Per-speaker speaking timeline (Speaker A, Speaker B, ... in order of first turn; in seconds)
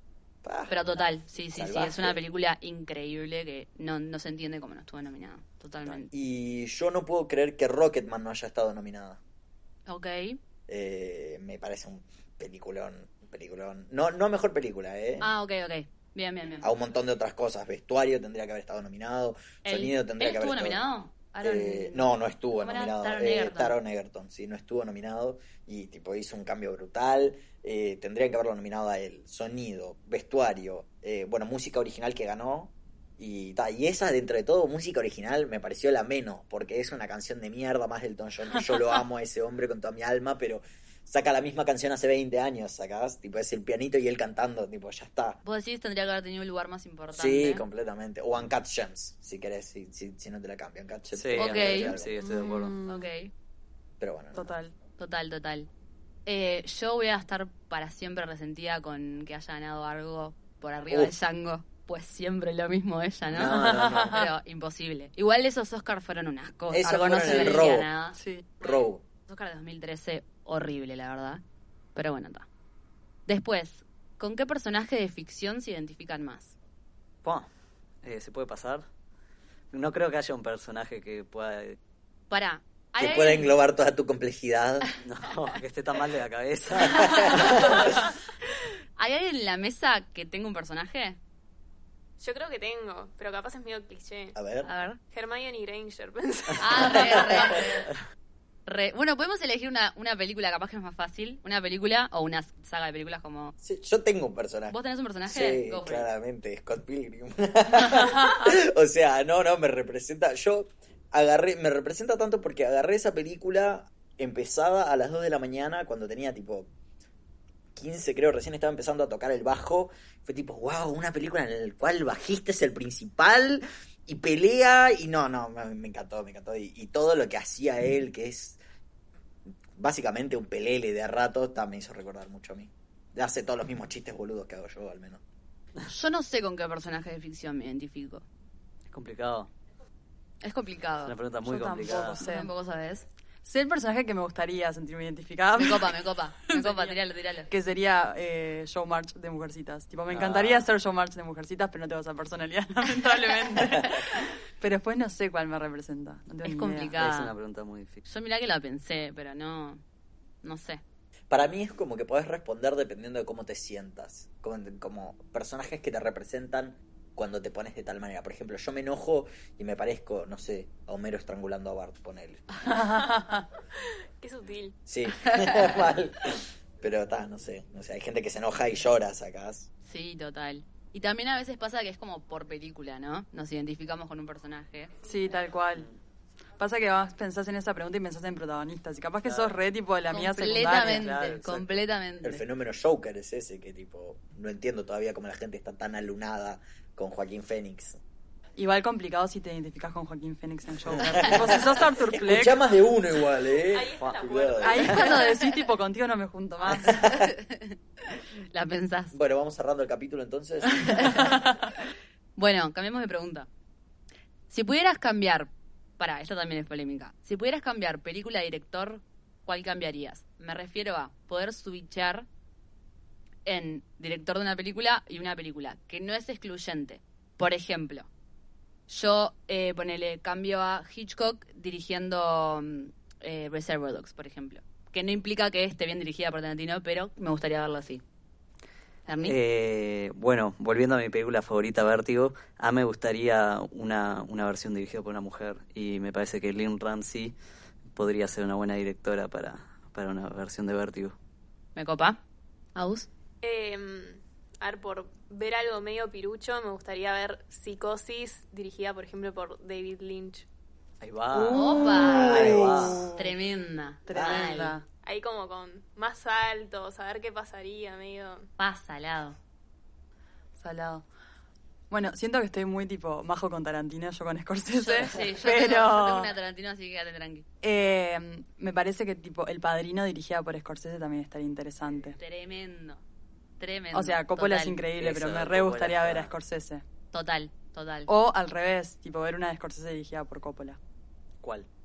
Speaker A: 0.4-0.8, 1.6-2.2, 6.1-9.2, 10.7-15.3, 16.6-20.8, 21.4-45.4, 47.1-52.1, 54.0-54.5, 60.9-61.1, 63.3-64.3, 66.7-67.9, 68.6-69.0, 83.0-84.9, 86.8-88.0, 94.3-94.7, 96.9-97.6, 103.6-116.7, 117.8-128.6, 129.8-135.2, 161.3-172.5, 174.9-179.7, 192.2-198.0, 201.0-204.9, 206.7-207.3, 209.1-211.3, 262.1-263.1, 264.1-264.5
Speaker B: 0.7-6.1, 9.9-10.4, 15.2-16.7, 19.6-23.8, 45.4-47.6, 51.4-52.0, 52.9-53.3, 55.0-55.7, 56.3-71.4, 72.0-72.5, 73.3-76.5, 82.3-83.5, 87.3-87.8, 89.0-91.2, 94.6-95.0, 96.6-97.9, 98.7-103.5, 104.7-106.1, 135.9-138.2, 140.4-141.2, 142.2-143.1, 145.6-147.5, 156.4-157.3, 158.1-159.8, 160.4-160.8, 175.1-175.7, 179.8-184.9, 190.1-192.4, 204.9-205.5, 207.0-209.2, 211.0-211.3, 212.4-213.5, 214.5-222.3, 223.4-228.1, 228.9-238.0, 239.1-239.4, 251.8-252.2, 252.8-253.1, 261.5-264.8, 268.6-269.4, 274.7-277.4, 282.2-283.0, 283.6-284.8, 287.1-288.1
Speaker C: 51.1-52.8, 78.0-78.8, 79.7-81.8, 85.0-87.8, 138.9-139.5, 141.1-142.2, 150.1-150.7, 157.0-158.0, 189.2-189.6, 190.8-191.8, 239.3-247.3, 247.9-251.2, 261.0-263.1, 285.0-286.3, 291.4-291.7
Speaker D: 52.2-53.1, 54.3-54.7, 63.4-64.3, 67.3-67.6, 68.1-68.5, 141.4-142.5, 143.4-157.0, 172.6-173.5, 185.0-185.9, 186.6-191.1, 198.6-202.6, 204.6-207.1, 210.9-211.5, 261.3-263.3, 264.1-264.9, 270.6-271.1, 271.9-276.3, 277.6-282.2, 283.9-286.8, 288.1-290.8
Speaker E: 92.2-94.4, 95.1-97.7, 174.2-174.8, 203.6-205.1, 253.4-260.5, 265.0-268.5